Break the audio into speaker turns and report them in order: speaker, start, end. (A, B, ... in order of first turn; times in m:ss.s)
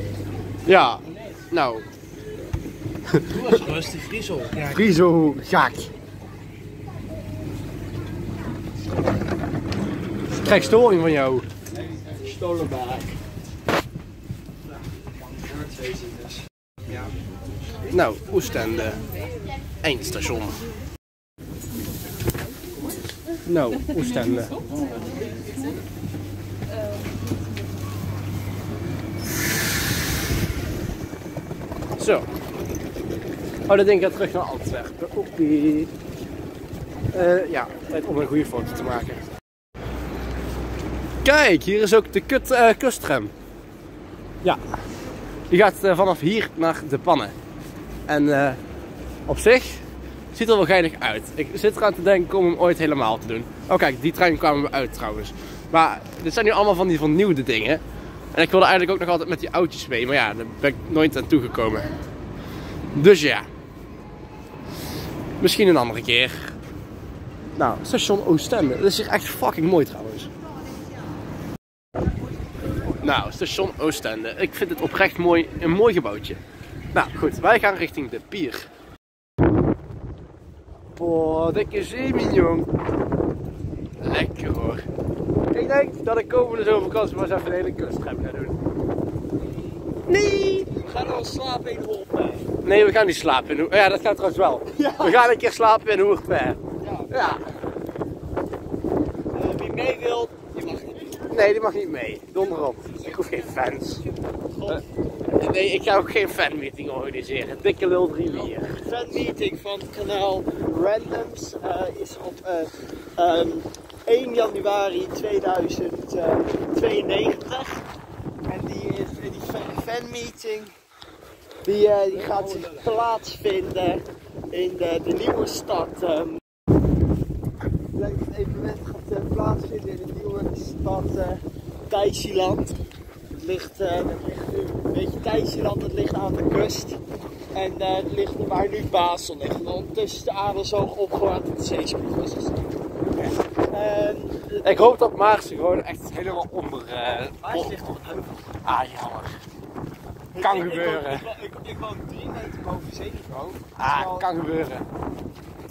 0:00.6-0:01.8 A
0:01.0-0:01.4 B
0:03.3-0:04.9 B
0:04.7-0:05.9 A
0:10.4-0:11.5 A
0:11.7-0:13.2 C
0:15.3-0:16.4 C
0:16.9-0:17.1 B
0:17.9-0:19.0 A
0:19.8-0:20.6 A
0:23.4-0:24.5 A
0:24.8-0:25.2 B
0:32.0-0:32.2 A
0:33.7-0:35.9 A
0:37.1-0:39.2 A
0:41.2-0:43.3 A
0:45.5-0:47.3 A
0:48.1-0:48.6 A
0:49.3-0:57.8 A
0:58.3-1:01.9 A
1:02.9-1:03.5 A
1:05.4-1:06.6 A
1:07.6-1:10.3 A
1:13.0-1:16.4 A
1:16.9-1:18.7 A
1:21.0-1:22.7 A
1:24.0-1:24.8 A
1:25.5-1:28.6 A
1:30.1-1:30.7 A
1:30.7-1:32.5 C
1:32.6-1:37.4 A
1:34.7-1:35.3 C
1:36.8-1:37.4 C
1:39.3-1:41.2 C
1:41.3-1:44.0 A
1:44.5-1:45.3 C
1:45.3-1:48.8 A
1:48.8-1:57.8 C
1:58.5-2:00.7 C
2:01.6-2:06.4 C
2:07.9-2:12.8 C
2:13.3-2:17.0 C
2:17.5-2:22.8 C
2:23.7-2:24.8 C
2:24.6-2:27.7 A
2:27.0-2:28.4 C
2:28.6-2:29.4 A
2:30.3-2:34.3 C
2:30.4-2:31.3 A
2:33.8-2:34.8 A